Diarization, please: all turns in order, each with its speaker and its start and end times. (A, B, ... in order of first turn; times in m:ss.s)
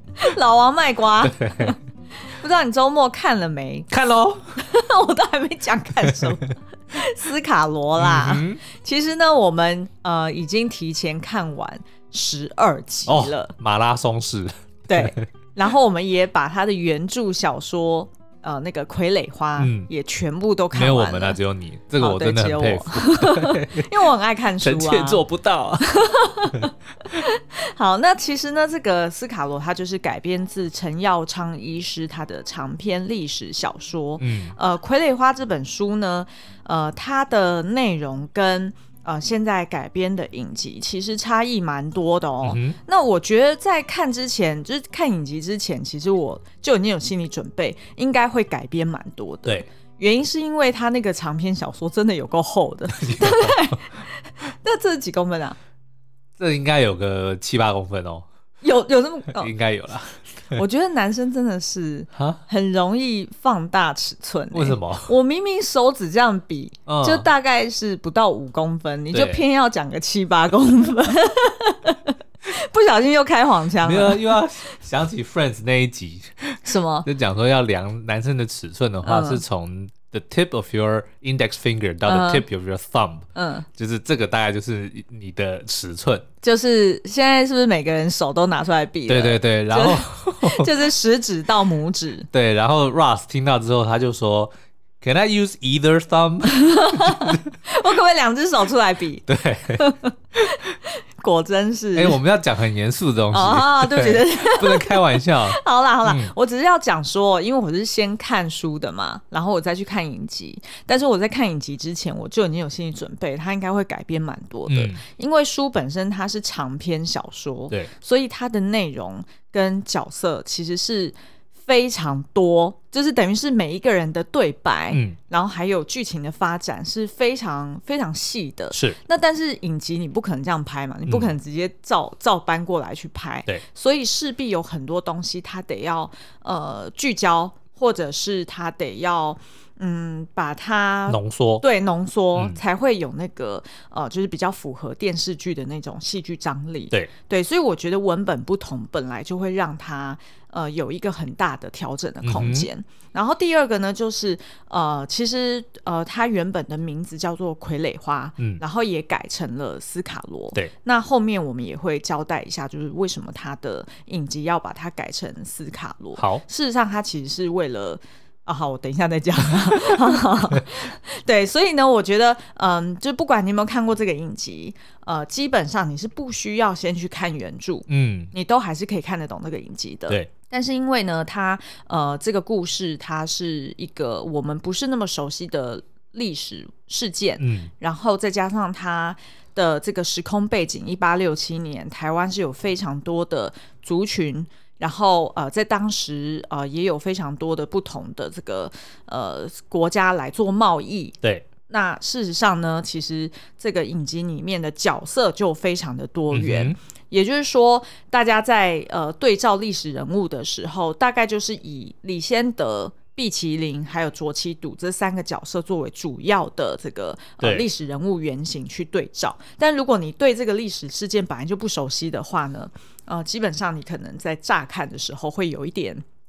0:00.2-0:03.9 A
0:01.2-0:01.8 B
0:03.9-0:04.4 B
0:04.6-0:13.5 A
0:06.1-0:06.3 B
0:08.0-0:08.6 B
0:13.1-0:15.3 B
0:14.9-0:21.4 A
0:19.6-0:19.9 B
0:20.7-0:24.0 B
0:22.0-0:25.2 A
0:24.6-0:25.9 B
0:25.8-0:55.6 A
0:34.2-0:34.6 B
0:42.4-0:42.8 B
0:53.0-0:53.7 B
0:56.4-0:58.3 B
0:58.6-0:59.5 A
0:59.4-1:00.6 B
1:00.5-1:14.4 A
1:02.1-1:02.4 B
1:04.5-1:05.1 B
1:06.9-1:07.3 B
1:09.1-1:09.4 B
1:13.8-1:26.3 B
1:16.6-1:17.1 A
1:19.0-1:19.4 A
1:22.1-1:22.4 A
1:23.4-1:23.7 A
1:26.4-1:32.3 A
1:29.1-1:30.7 B
1:32.3-1:37.4 B
1:36.5-1:42.2 A
1:39.3-1:39.9 B
1:42.0-1:46.3 B
1:43.3-3:46.0 A
1:54.7-1:55.0 B
2:04.9-2:05.2 B
2:08.7-2:09.0 B
2:21.1-2:21.6 B
2:22.4-2:22.6 B
2:32.2-2:32.7 B
2:57.9-2:58.3 B
3:07.4-3:07.7 B
3:26.3-3:26.8 B
3:37.4-3:37.7 B